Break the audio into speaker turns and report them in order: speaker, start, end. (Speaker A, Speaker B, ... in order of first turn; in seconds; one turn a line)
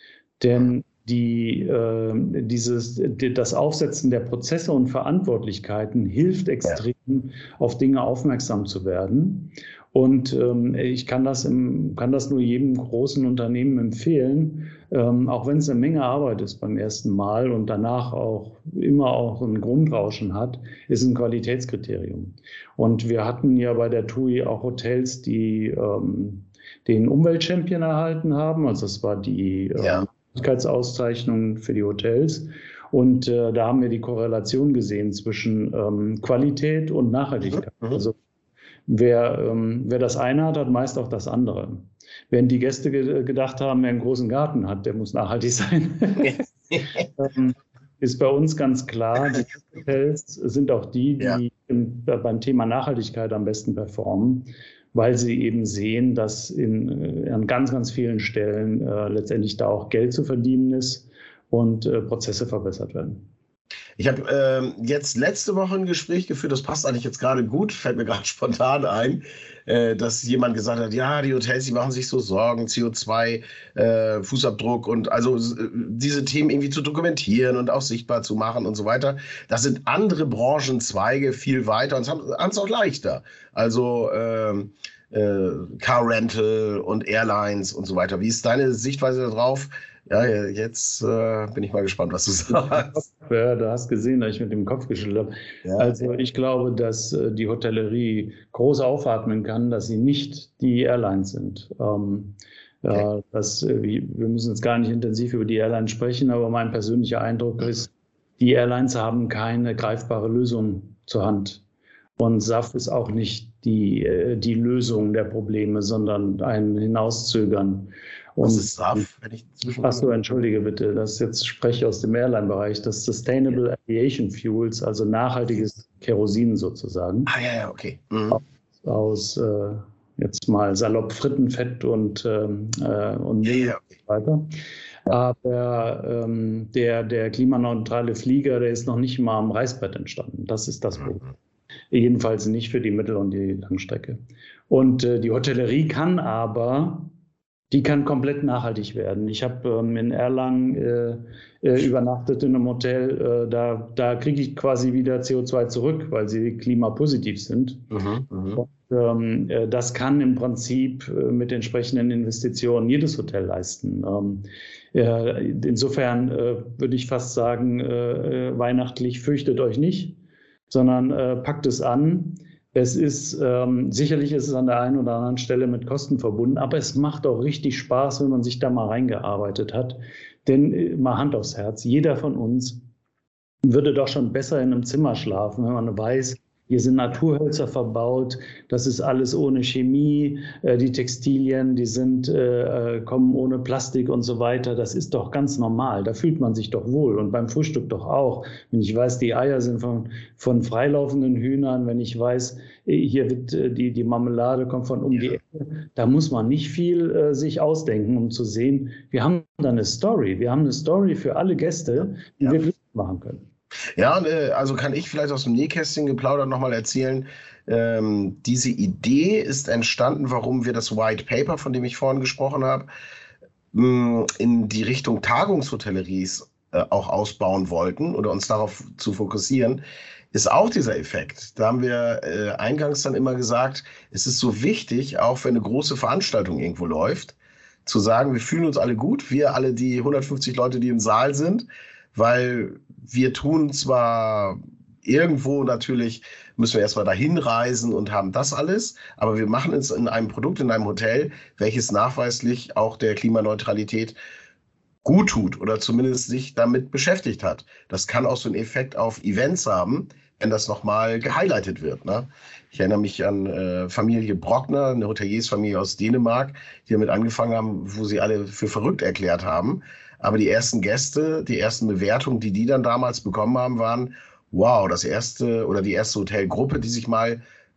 Speaker A: 0.4-38.2
Speaker B: 29.8-30.1
Speaker B: 37.5-38.0
Speaker A: 38.9-46.4
Speaker B: 46.2-47.0
Speaker A: 47.2-63.3
Speaker B: 64.0-93.0
Speaker A: 92.5-111.6
Speaker B: 95.7-96.0
Speaker A: 112.2-119.1
Speaker B: 118.4-120.2
Speaker A: 119.8-127.3
Speaker B: 127.3-128.4
Speaker A: 128.3-134.5
Speaker B: 133.4-133.8
Speaker A: 135.1-141.3
Speaker A: 141.9-147.1
Speaker A: 147.7-157.9
Speaker B: 157.9-158.6
Speaker A: 158.6-170.2
Speaker A: 170.7-182.8
Speaker A: 183.6-213.5
Speaker B: 213.9-222.9
Speaker B: 223.7-229.8
Speaker B: 230.3-254.2
Speaker B: 255.0-277.4